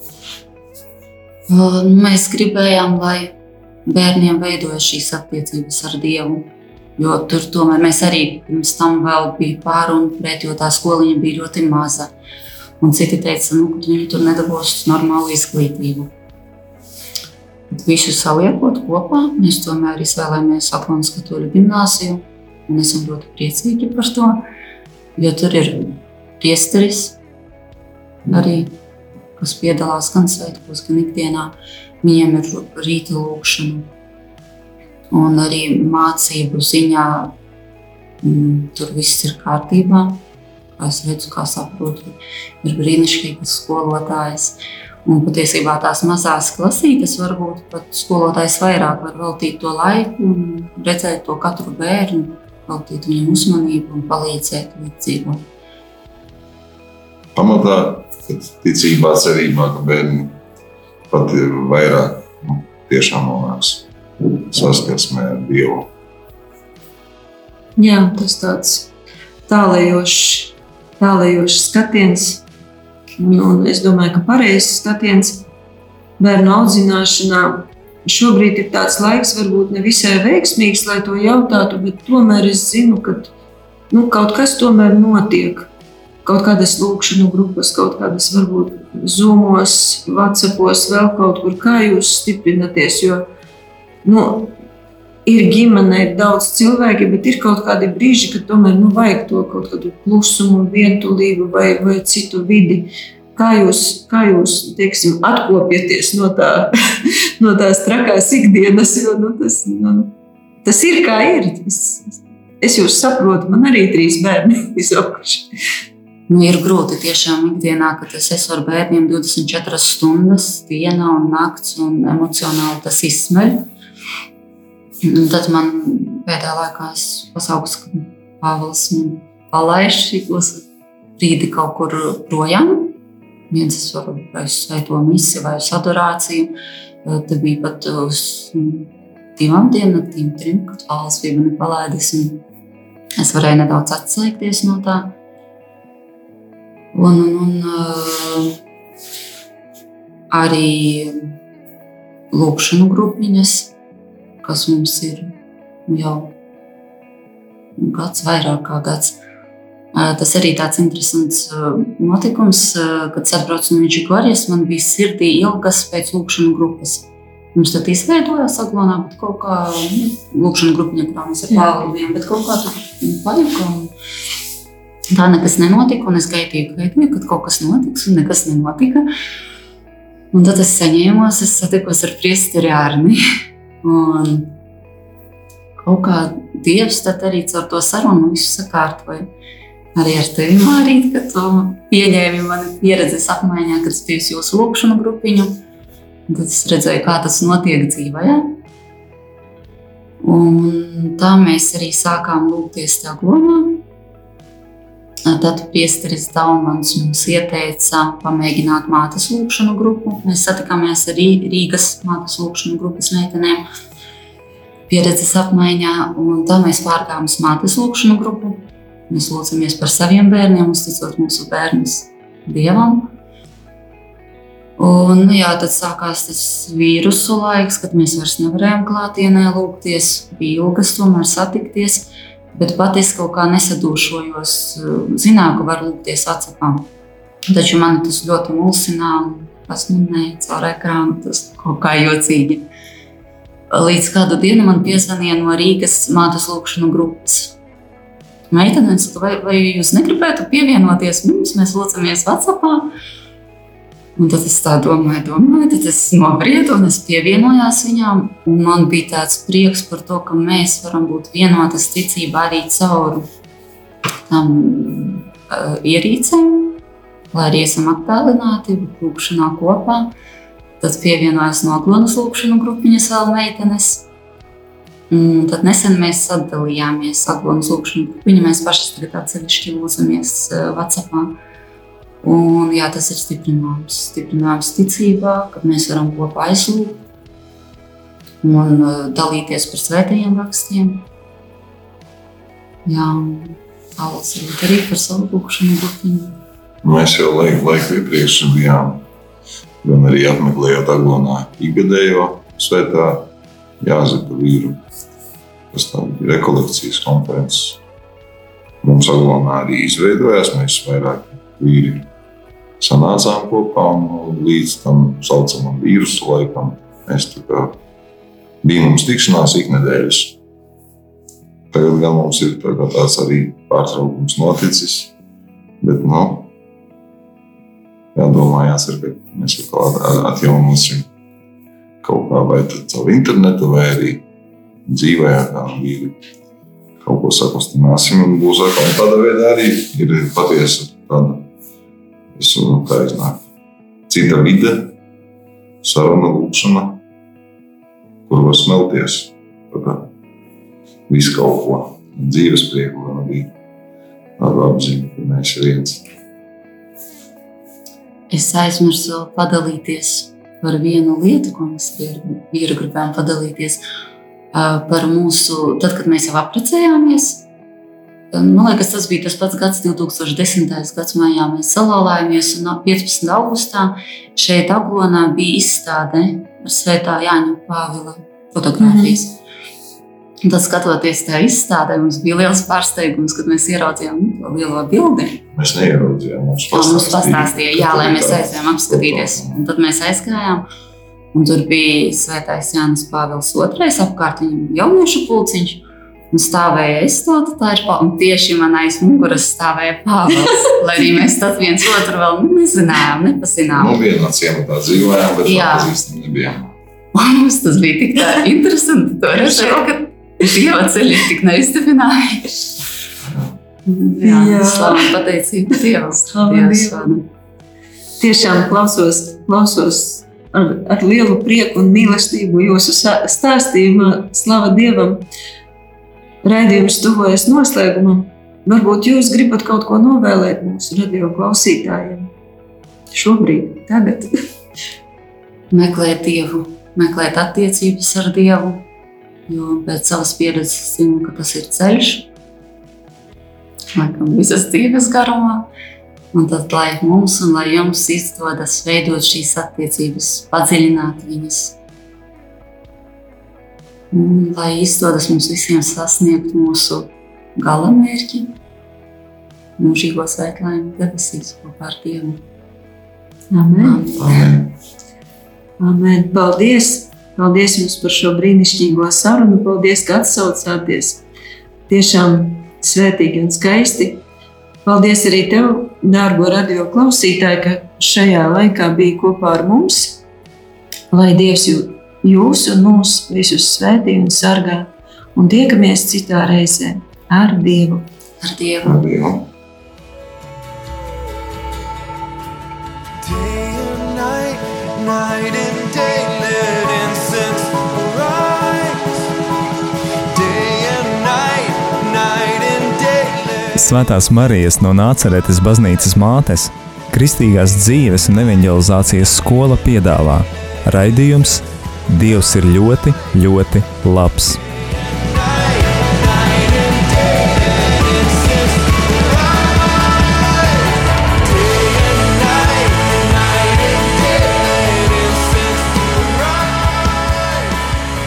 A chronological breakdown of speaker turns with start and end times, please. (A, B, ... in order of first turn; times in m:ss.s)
0:01.5-0:03.4 A
0:03.9-0:12.1 A
0:12.8-0:16.1 A
0:17.7-0:24.4 A
0:25.2-0:27.2 A
0:28.3-0:28.8 A
0:29.4-0:33.9 A
0:35.1-0:37.4 A
0:38.2-0:40.2 A
0:40.8-0:55.4 A
0:57.3-1:00.4 B
1:01.1-1:05.9 B
1:07.8-1:08.9 C
1:09.5-1:12.4 C
1:13.2-1:15.4 C
1:16.2-1:23.3 C
1:23.9-1:25.7 C
1:26.2-1:33.3 C
1:34.0-1:34.6 C
1:35.3-1:46.7 C
1:47.4-1:50.1 C
1:50.6-1:55.5 C
1:56.3-2:03.7 A
2:05.0-2:10.6 A
2:11.2-2:13.0 A
2:13.5-2:22.4 A
2:23.2-2:25.2 A
2:26.9-2:28.6 A
2:30.3-2:31.2 A
2:32.3-2:33.7 A
2:34.4-2:35.4 A
2:35.9-2:36.4 A
2:37.8-2:39.2 A
2:39.9-2:53.9 A
2:55.1-2:59.1 A
3:00.3-3:03.2 A
3:03.8-3:04.6 A
3:05.8-3:09.3 A
3:10.0-3:15.6 A
3:16.3-3:18.6 A
3:20.2-3:23.8 A
3:25.3-3:33.6 A
3:34.9-3:43.1 A
3:44.8-3:56.9 A
3:57.5-4:02.7 A
4:03.7-4:07.6 A
4:08.5-4:12.9 A
4:14.2-4:23.3 A
4:24.3-4:26.8 A
4:27.3-4:30.1 A
4:30.8-4:34.1 A
4:35.1-4:41.4 A
4:42.2-4:47.0 A
4:48.4-4:51.1 A
4:52.8-4:56.4 A
4:56.8-4:59.1 B
4:59.8-5:04.8 B
5:05.7-5:07.8 B
5:08.8-5:12.1 B
5:12.8-5:17.8 B
5:18.6-5:20.4 B
5:21.7-5:25.1 B
5:25.8-5:26.5 B
5:28.2-5:31.1 B
5:32.0-5:34.2 B
5:34.9-5:36.2 B
5:37.0-5:41.5 B
5:42.4-5:43.5 B
5:44.1-5:45.0 B
5:45.8-5:47.0 B
5:48.3-5:50.1 B
5:51.1-5:53.5 B
5:54.4-5:56.1 B
5:58.3-6:03.8 A
6:04.5-6:07.4 A
6:08.3-6:19.4 A
6:18.8-6:19.2 C
6:20.4-6:25.4 A
6:25.5-6:29.6 B
6:26.7-6:30.7 A
6:31.3-6:44.0 A
6:43.7-6:46.8 B
6:45.4-6:46.0 A
6:47.1-6:52.5 A
6:49.4-6:49.8 C
6:53.3-6:53.6 B
6:53.9-6:57.3 A
6:54.2-6:55.1 C
6:56.3-6:57.2 C
6:58.2-7:05.3 C
7:06.4-7:12.3 C
7:13.1-7:14.3 C
7:15.7-7:18.9 A
7:19.5-7:22.3 A
7:24.0-7:25.7 A
7:26.3-7:31.8 A
7:34.1-7:38.5 A
7:39.8-7:42.4 A
7:43.5-7:44.0 C
7:43.8-7:44.6 A
7:44.2-7:44.7 B
7:45.8-7:51.2 C
7:51.9-7:54.2 C
7:54.8-8:00.2 C
8:01.1-8:08.1 C
8:08.4-8:09.1 A
8:08.8-8:09.5 B
8:13.2-8:19.3 D
8:20.3-8:23.8 D
8:23.8-8:34.6 E
8:35.2-8:47.9 D